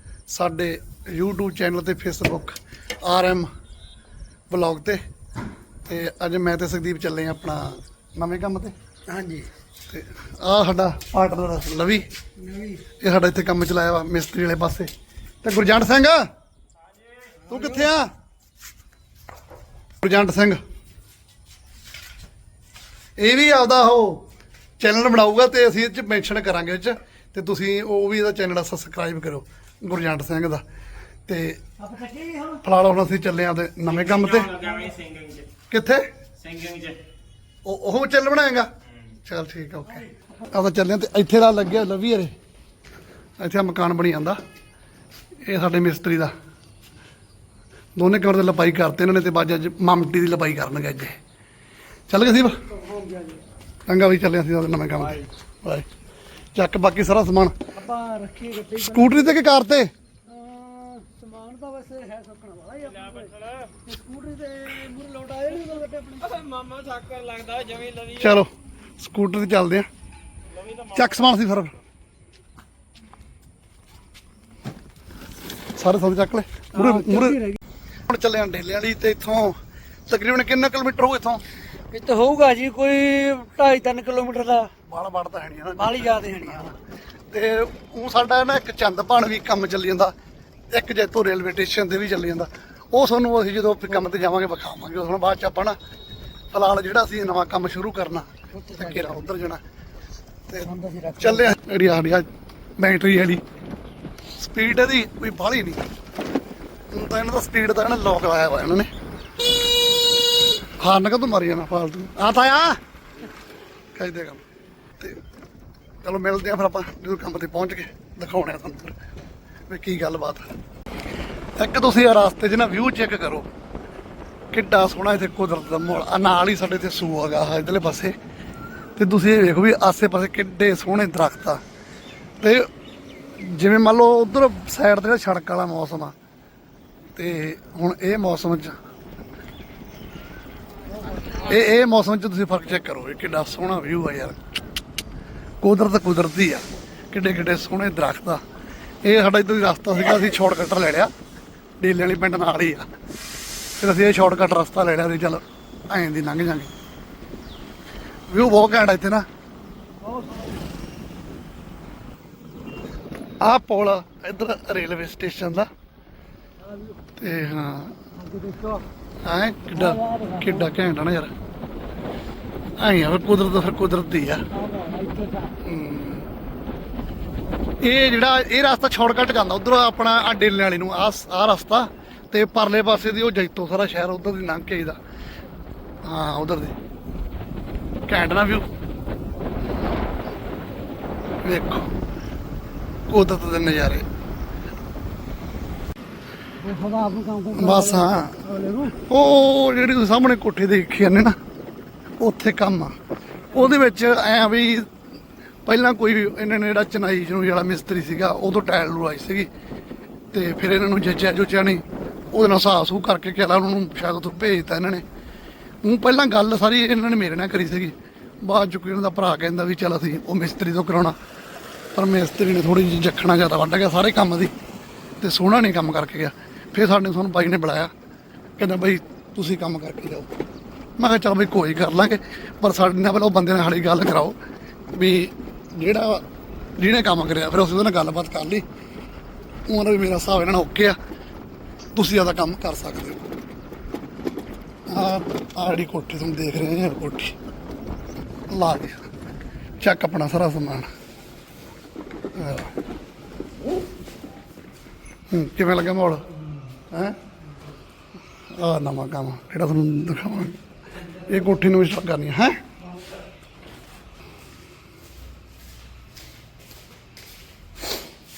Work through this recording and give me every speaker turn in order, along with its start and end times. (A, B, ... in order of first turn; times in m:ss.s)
0:00.3-0:03.5 A
0:04.5-0:05.0 A
0:05.9-0:08.7 A
0:09.1-0:09.5 B
0:09.9-0:12.1 A
0:12.4-0:12.8 B
0:12.9-0:14.9 A
0:15.4-0:16.2 A
0:17.5-0:18.1 A
0:20.0-0:20.6 A
0:23.2-0:24.2 A
0:24.8-0:30.6 A
0:31.3-0:31.6 A
0:31.8-0:32.6 B
0:32.6-0:34.6 A
0:34.5-0:35.0 B
0:34.6-0:35.5 C
0:35.7-0:36.1 A
0:36.4-0:37.0 C
0:37.6-0:38.7 A
0:39.2-0:42.3 A
0:43.4-0:44.4 A
0:45.5-0:46.3 A
0:48.0-0:51.2 A
0:52.1-0:52.6 A
0:52.7-0:53.4 B
0:53.9-0:55.9 A
0:56.6-0:57.5 A
0:57.7-0:59.3 B
0:58.8-0:59.9 A
1:00.3-1:06.6 B
1:06.6-1:08.1 C
1:08.1-1:09.9 A
1:10.8-1:11.8 A
1:15.8-1:17.4 A
1:16.8-1:17.6 B
1:18.1-1:19.6 A
1:20.1-1:21.4 A
1:21.9-1:24.7 B
1:24.8-1:26.7 A
1:25.8-1:26.8 B
1:27.3-1:30.1 A
1:30.7-1:35.8 A
1:36.5-1:39.6 A
1:38.6-1:39.2 B
1:40.5-1:42.3 A
1:40.6-1:41.5 B
1:42.8-1:43.4 A
1:44.4-1:45.8 A
1:46.9-1:48.9 A
1:50.8-1:52.8 A
1:54.0-1:54.4 A
1:56.0-1:59.0 A
1:59.7-2:00.5 A
2:01.6-2:03.5 A
2:04.5-2:08.1 A
2:09.0-2:11.6 A
2:12.4-2:12.7 A
2:13.4-2:16.1 A
2:17.2-2:18.7 A
2:21.4-2:24.4 A
2:25.6-2:28.4 A
2:29.0-2:31.1 A
2:31.8-2:32.9 A
2:33.8-2:36.7 A
2:38.3-2:39.3 A
2:40.1-2:40.4 B
2:43.4-2:45.7 A
2:47.2-2:48.0 A
2:48.2-2:48.8 B
2:49.2-2:51.3 A
2:49.8-2:50.7 B
2:52.8-2:54.4 A
2:54.5-2:55.6 B
2:55.6-2:56.3 A
2:57.8-3:05.0 A
3:06.0-3:06.7 A
3:08.1-3:08.7 A
3:11.4-3:11.9 A
3:13.1-3:14.1 A
3:16.6-3:19.0 B
3:17.5-3:18.4 A
3:19.0-3:21.4 A
3:22.2-3:22.9 A
3:23.5-3:24.9 A
3:25.7-3:29.5 A
3:30.3-3:35.0 A
3:35.8-3:41.2 A
3:42.0-3:44.5 A
3:45.2-3:47.9 A
3:48.6-3:50.3 A
3:51.0-3:54.4 A
3:55.0-3:56.2 A
3:56.8-3:58.6 A
3:59.7-4:01.0 A
4:02.0-4:03.2 A
4:04.9-4:07.4 A
4:08.5-4:09.1 A
4:09.8-4:10.9 A
4:12.4-4:12.7 A
4:15.3-4:16.2 A
4:16.9-4:17.2 A
4:18.5-4:20.6 A
4:21.1-4:22.6 A